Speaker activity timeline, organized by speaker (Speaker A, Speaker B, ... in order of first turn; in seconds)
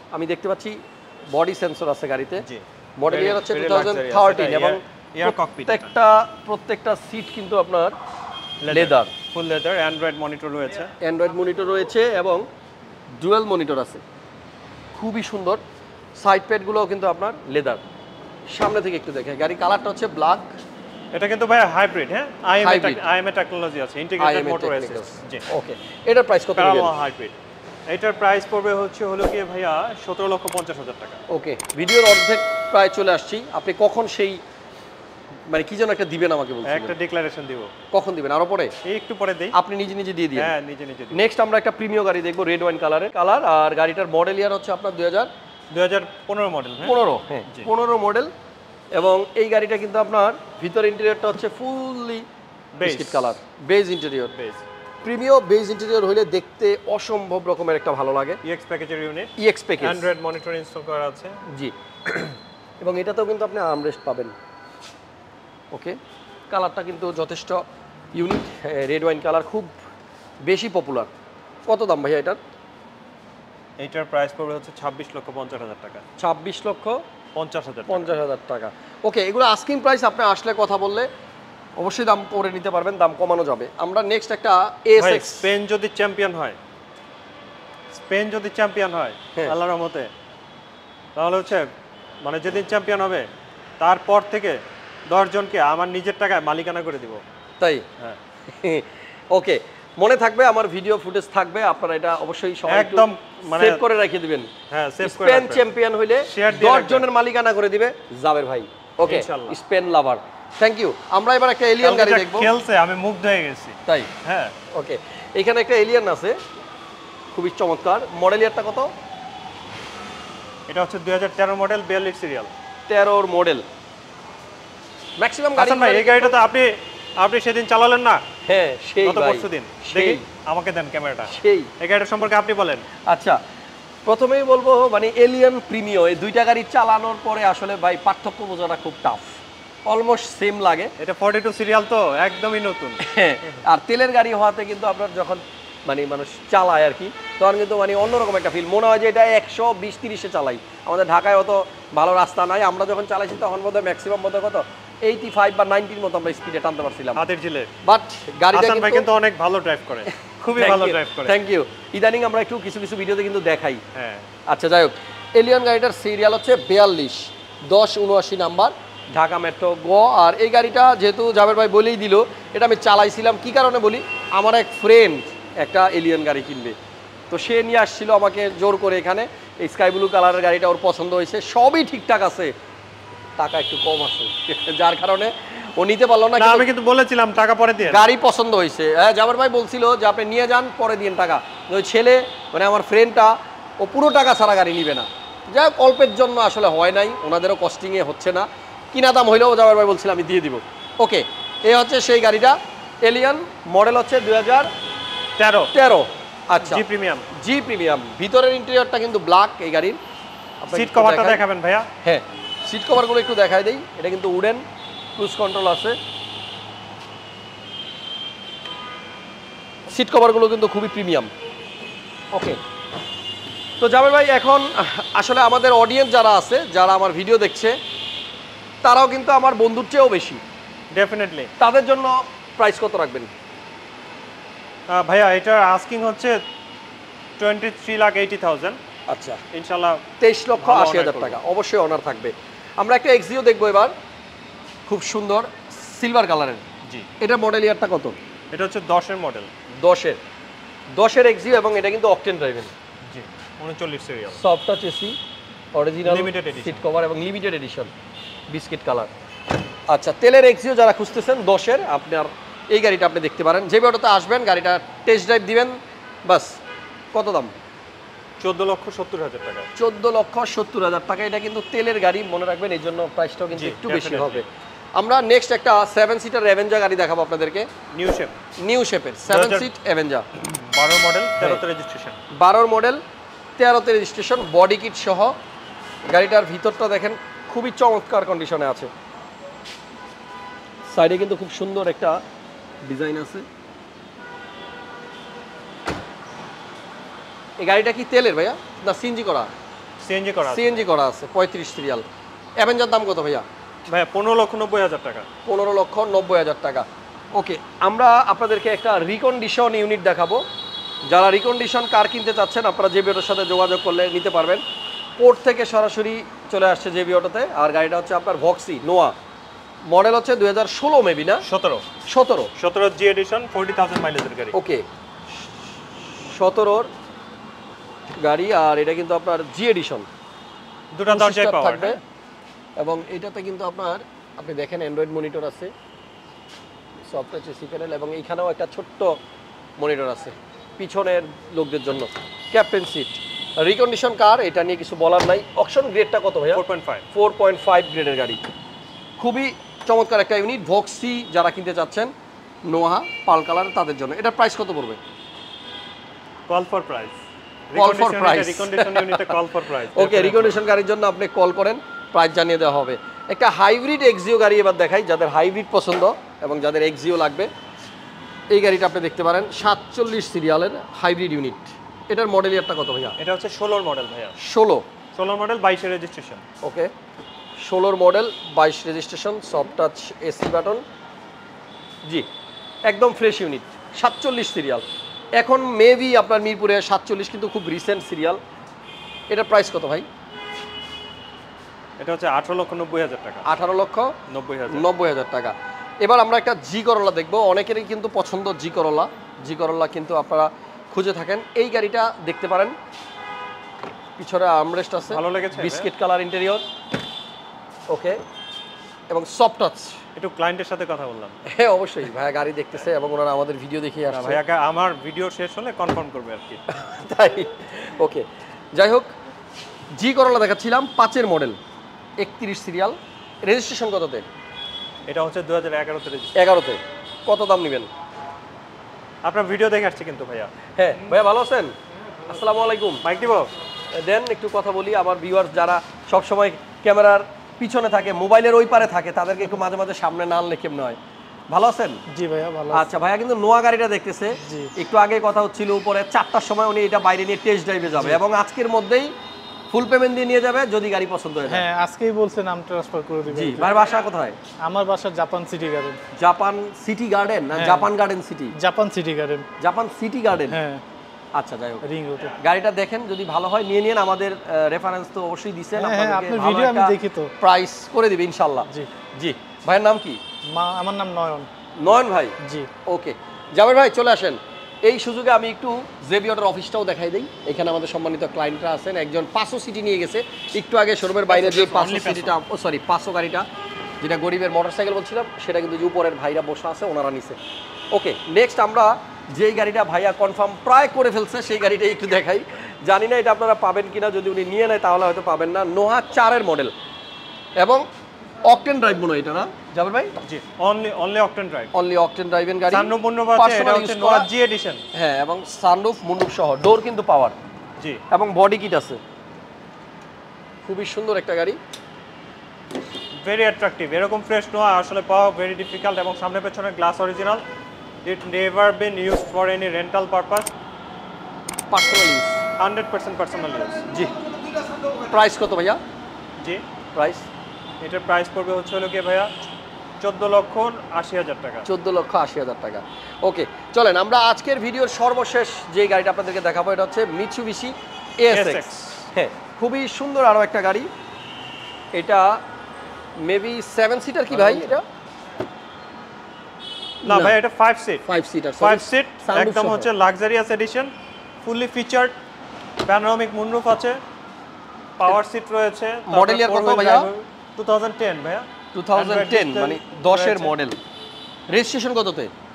Speaker A: 0.1-2.4, 3.0-7.9, 8.7-9.1, 11.0-12.4, 13.2-14.0, 14.9-15.6, 16.2-17.8, 18.5-20.5, 22.6-23.0, 24.2-26.9, 31.3-34.4, 35.5-36.9, 37.9-38.7, 39.5-40.5, 41.1-45.3, 46.8-48.3, 48.9-52.2, 52.8-54.3, 55.0-58.4, 59.4-60.1, 61.5-64.3, 65.7-66.0, 66.5-69.7, 70.4-71.1, 71.7-72.4, 76.2-77.0, 77.9-81.1, 81.8-85.5, 97.6-97.8, 98.5-104.5, 105.0-112.5, 114.7-116.4, 117.3-118.9, 122.9-123.7, 125.2-126.4, 128.4-130.2, 131.3-131.7, 133.0-133.4, 134.0-140.9, 143.0-157.2, 157.8-159.1, 160.1-163.8, 164.5-176.7, 177.3-182.5, 183.4-186.7, 187.9-204.7, 205.7-210.0, 210.6-211.4, 212.0-214.6, 215.2-215.9, 219.9-221.3, 222.3-222.6, 223.8-227.8, 228.8-230.4, 231.6-233.3, 239.1-239.4, 240.2-243.9, 244.9-246.6, 247.2-248.2, 249.8-250.2, 250.9-252.7, 254.3-255.2, 255.7-257.9, 258.5-259.1, 259.9-266.6, 267.1-267.5, 269.8-274.4, 274.9-277.7, 278.6-280.2, 282.3-283.0, 283.6-285.4, 286.1-288.9, 290.9-292.2, 292.8-293.4, 297.6-299.5, 300.4-302.0, 302.6-303.4, 305.4-310.4, 311.1-314.6, 315.2-319.1, 319.8-321.4, 322.0-322.5, 324.5-324.8, 326.2-326.9, 328.2-330.1, 331.1-332.0, 332.8-335.7, 337.1-339.2, 339.8-348.4, 349.2-352.1, 352.6-355.0, 357.7-359.4, 359.9-367.5, 368.5-373.2, 374.4-374.9, 376.6-376.9, 377.6-380.8, 382.9-384.8, 385.4-388.4, 389.3-390.1, 393.4-394.1, 394.7-402.7, 404.2-406.6, 407.9-408.2, 409.1-410.0, 411.4-414.4, 416.7-419.1, 419.9-421.6, 422.2-424.2, 426.3-427.9, 430.7-431.7, 432.2-433.0, 433.9-441.0, 441.5-442.0, 442.7-449.1, 449.7-451.6, 453.3-454.4, 456.1-458.5, 459.6-460.6, 461.3-461.8, 462.4-470.2, 471.8-483.4, 484.0-487.4, 487.9-496.7, 497.6-497.9, 498.4-500.1, 501.7-504.3, 504.9-507.4, 508.1-509.0, 510.6-511.6, 521.7-522.4, 523.9-524.1, 525.0-525.8, 526.9-527.2, 531.6-540.9, 541.9-542.4, 543.2-544.8, 547.0-547.4, 548.0-549.9, 556.1-557.1, 558.7-560.8, 561.5-562.3
Speaker B: 2.4-5.9, 8.6-10.9, 21.1-25.4, 26.6-27.4, 27.9-31.2, 36.6-37.7, 38.8-39.5, 40.4-41.2, 45.7-47.0, 52.7-53.3, 54.3-54.6, 58.4-61.4, 73.8-76.0, 77.3-78.1, 85.0-86.6, 87.9-90.1, 91.2-91.7, 92.2-93.3, 93.8-97.2, 102.7-103.8, 104.7-105.6, 106.2-107.1, 109.0-109.6, 111.8-114.5, 120.7-122.5, 125.6-128.2, 129.0-132.8, 141.0-143.0, 157.1-157.7, 158.5-161.3, 163.9-164.3, 186.4-188.1, 205.4-205.7, 206.6-207.3, 210.7-211.9, 230.9-231.5, 234.9-236.3, 237.4-238.8, 239.5-240.0, 240.6-241.4, 248.5-249.5, 253.0-254.4, 256.0-256.8, 268.4-269.7, 273.5-274.5, 277.9-278.4, 279.3-279.7, 280.4-282.2, 300.0-300.8, 303.9-305.2, 321.4-321.9, 322.6-324.6, 330.9-331.9, 346.5-347.0, 356.5-357.2, 357.7-360.6, 373.2-374.3, 375.1-376.4, 392.0-393.5, 394.3-394.9, 405.1-405.9, 410.1-411.4, 414.1-416.6, 425.1-426.3, 429.2-430.5, 433.0-433.5, 481.3-482.3, 500.2-501.7, 502.7-504.8, 513.2-517.4, 518.0-520.5, 522.6-523.8, 527.8-529.3, 530.0-531.7, 538.3-539.1, 544.3-544.7, 547.0-548.0, 548.6-550.9, 551.4-552.1, 552.9-554.0, 555.0-560.5
Speaker C: 442.1-442.9, 444.4-444.7, 451.4-453.7, 454.6-456.0, 457.5-457.9, 458.5-459.4, 460.5-460.8, 461.8-462.3, 465.8-467.3, 470.5-471.5, 472.4-472.7